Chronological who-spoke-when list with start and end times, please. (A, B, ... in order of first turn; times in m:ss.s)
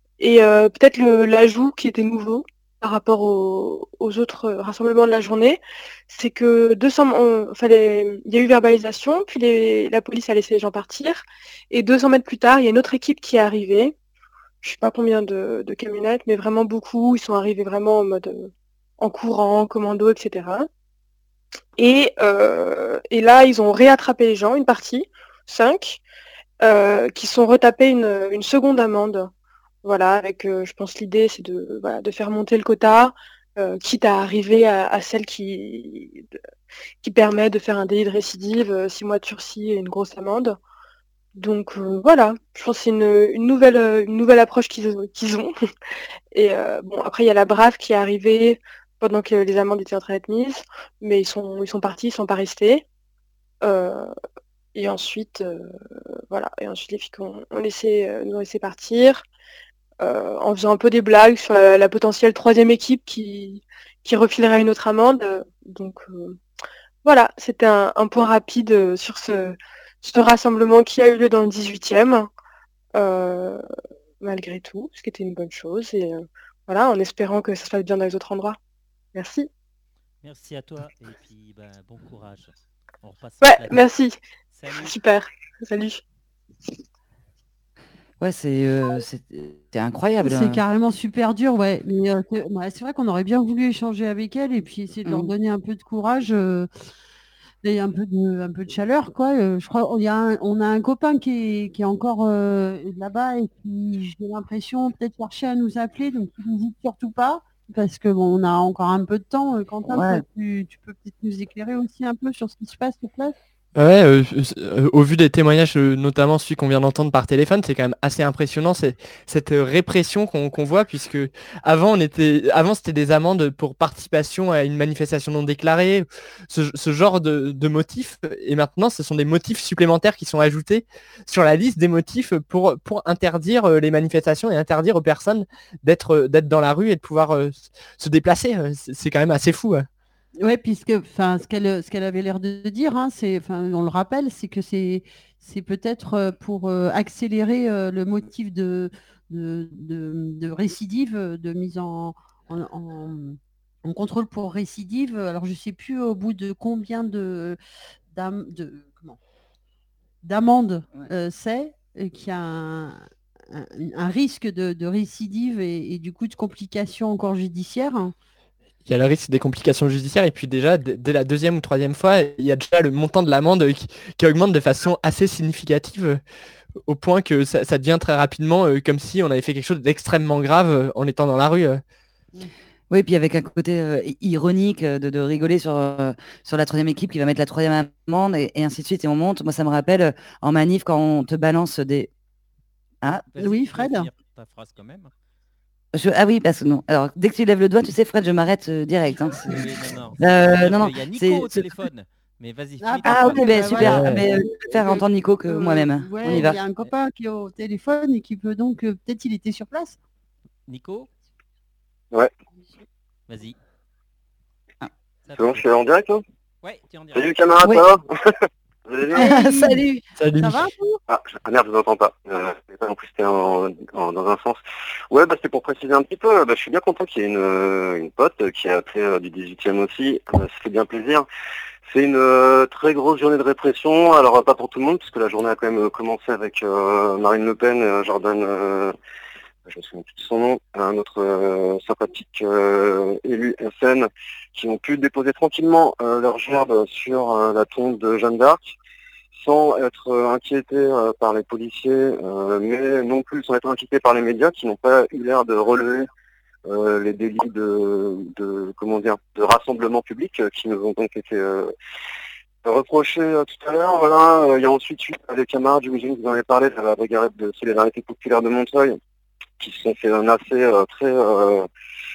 0:00.2-0:13.9 A
0:14.6-0:20.7 A
0:21.8-0:26.0 A
0:26.6-0:29.3 A
0:29.8-0:36.2 A
0:37.0-0:40.6 A
0:41.4-0:45.5 A
0:46.3-0:52.8 A
0:53.6-0:54.1 A
0:54.7-0:55.7 A
0:56.3-0:59.2 A
1:00.0-1:06.4 A
1:07.0-1:12.3 A
1:12.9-1:13.6 A
1:14.2-1:18.6 A
1:19.1-1:19.5 A
1:20.2-1:23.9 B
1:23.4-1:26.0 A
1:24.5-1:25.0 B
1:28.2-1:30.6 C
1:30.2-1:36.7 D
1:35.0-1:35.3 C
1:37.6-1:53.3 D
1:49.9-1:50.2 C
1:53.8-2:19.9 E
2:20.4-2:37.6 D
2:38.1-2:39.2 D
2:40.2-2:48.1 D
2:48.8-2:56.2 E
2:56.9-3:01.8 E
3:02.9-3:12.1 C
3:13.1-3:15.1 B
3:13.4-3:14.1 D
3:15.9-3:19.6 C
3:19.4-3:24.2 B
3:20.2-3:21.8 C
3:22.8-3:30.0 D
3:23.1-3:26.6 C
3:26.2-3:26.9 B
3:30.7-3:31.1 B
3:33.3-3:33.6 B
3:35.3-3:35.8 B
3:35.4-3:36.2 F
3:36.6-3:37.5 B
3:37.1-3:38.0 F
3:38.9-3:39.3 F
3:39.1-3:41.0 D
3:39.1-3:40.0 C
3:40.2-3:40.6 E
3:41.1-3:51.2 F
3:51.8-3:58.9 F
3:59.7-4:08.7 F
4:09.3-4:16.1 F
4:16.6-4:21.7 F
4:22.6-4:29.0 F
4:29.6-4:31.7 F